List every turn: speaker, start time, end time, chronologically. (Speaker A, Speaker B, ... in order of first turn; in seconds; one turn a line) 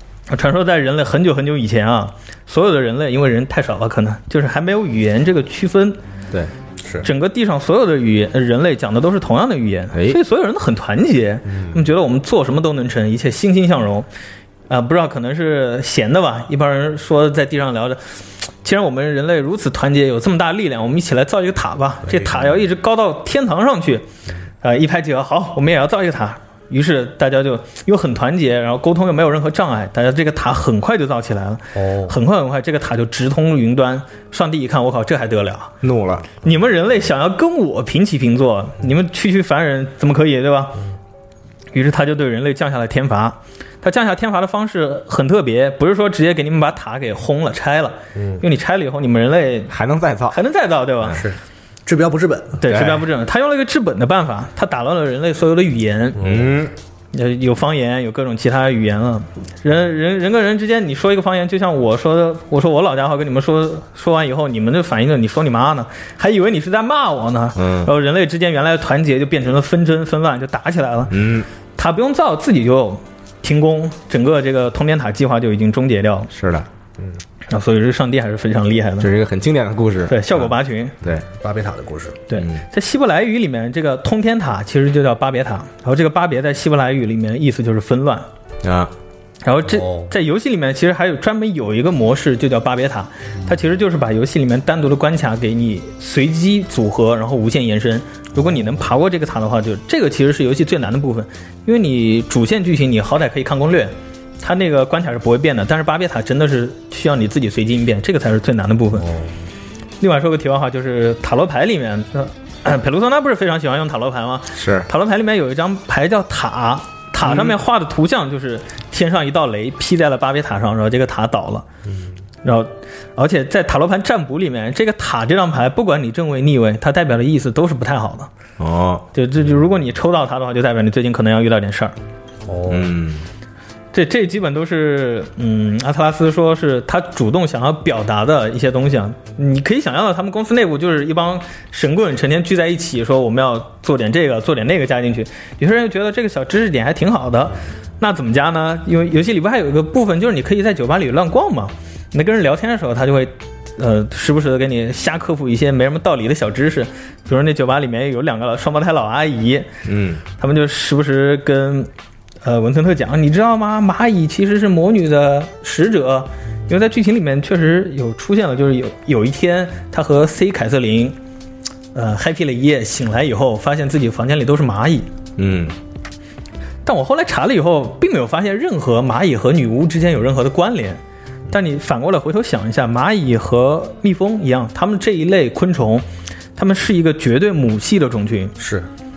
Speaker A: 0.3-6.0
Speaker A: 7.0-14.1
Speaker B: 11.5-11.8
Speaker A: 14.7-18.0
Speaker A: 18.6-24.1
Speaker A: 24.6-35.8
Speaker B: 31.8-32.1
Speaker C: 35.8-36.3
Speaker A: 36.4-40.8
Speaker A: 41.7-49.7
Speaker B: 48.1-48.4
Speaker C: 49.7-50.4
Speaker A: 50.3-51.2
Speaker B: 51.1-52.6
Speaker A: 52.6-56.2
Speaker C: 52.7-53.0
Speaker B: 56.2-56.5
Speaker C: 56.2-56.7
Speaker A: 57.1-71.2
Speaker C: 67.6-67.9
Speaker C: 71.1-71.5
Speaker A: 71.8-76.3
Speaker C: 76.3-76.7
Speaker A: 77.5-79.1
Speaker C: 79.0-80.5
Speaker A: 80.1-81.0
Speaker B: 81.3-82.2
Speaker A: 82.3-88.3
Speaker C: 88.6-88.9
Speaker A: 89.5-109.1
Speaker B: 89.7-90.1
Speaker B: 109.0-109.3
Speaker A: 110.0-121.7
Speaker C: 114.6-114.9
Speaker C: 117.3-117.5
Speaker A: 122.4-128.3
Speaker C: 128.6-129.0
Speaker A: 129.1-132.0
Speaker B: 132.4-133.0
Speaker C: 132.7-133.2
Speaker A: 133.9-159.7
Speaker C: 159.8-160.2
Speaker A: 160.4-161.9
Speaker A: 162.4-171.2
Speaker A: 171.9-175.1
Speaker C: 175.4-175.8
Speaker A: 176.8-188.6
Speaker B: 188.6-188.9